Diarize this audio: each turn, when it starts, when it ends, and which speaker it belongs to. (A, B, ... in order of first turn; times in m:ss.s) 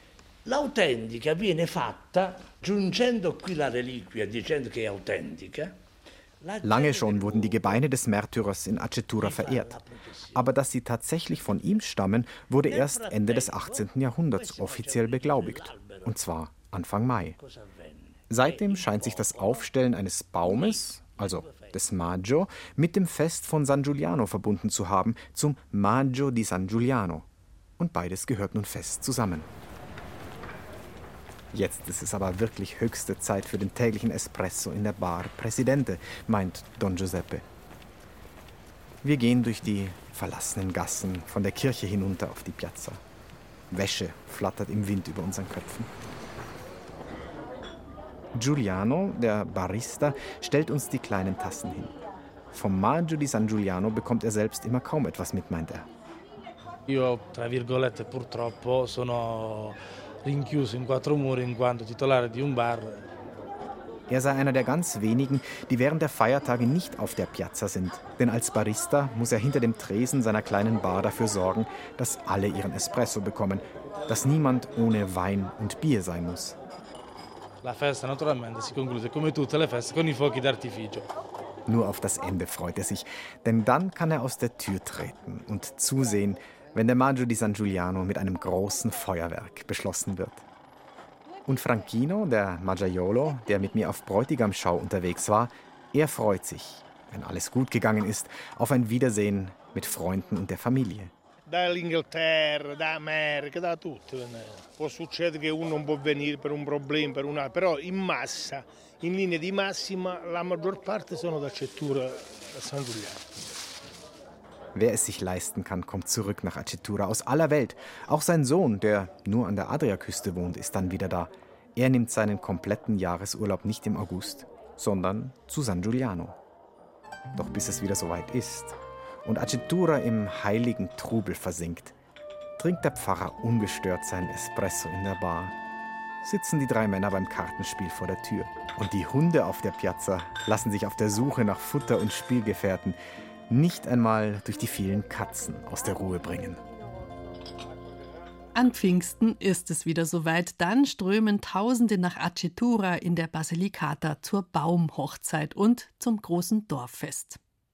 0:00.4-0:05.7 A
0:06.4-0:07.9 A
0:06.6-0:09.7 B
0:09.2-0:10.5 A
0:10.3-0:17.4 B
0:11.3-0:11.8 A
0:12.6-0:16.2 A
0:17.4-0:19.7 A
0:18.3-0:27.2 B
0:20.4-0:21.9 A
0:27.8-0:29.5 B
0:31.5-0:37.4 B
0:39.0-0:43.0 B
0:43.7-0:45.9 B
0:48.3-0:51.9 B
0:52.5-0:55.9 B
0:56.9-1:03.0 C
1:04.1-1:16.6 B
1:17.6-1:21.1 C
1:21.7-1:30.4 B
1:31.4-1:41.1 B
1:41.5-1:53.2 D
1:54.7-2:06.4 B
2:07.3-2:11.9 B
2:12.6-2:15.6 B
2:16.2-2:23.0 B
2:23.5-2:26.6 B
2:28.5-2:37.4 E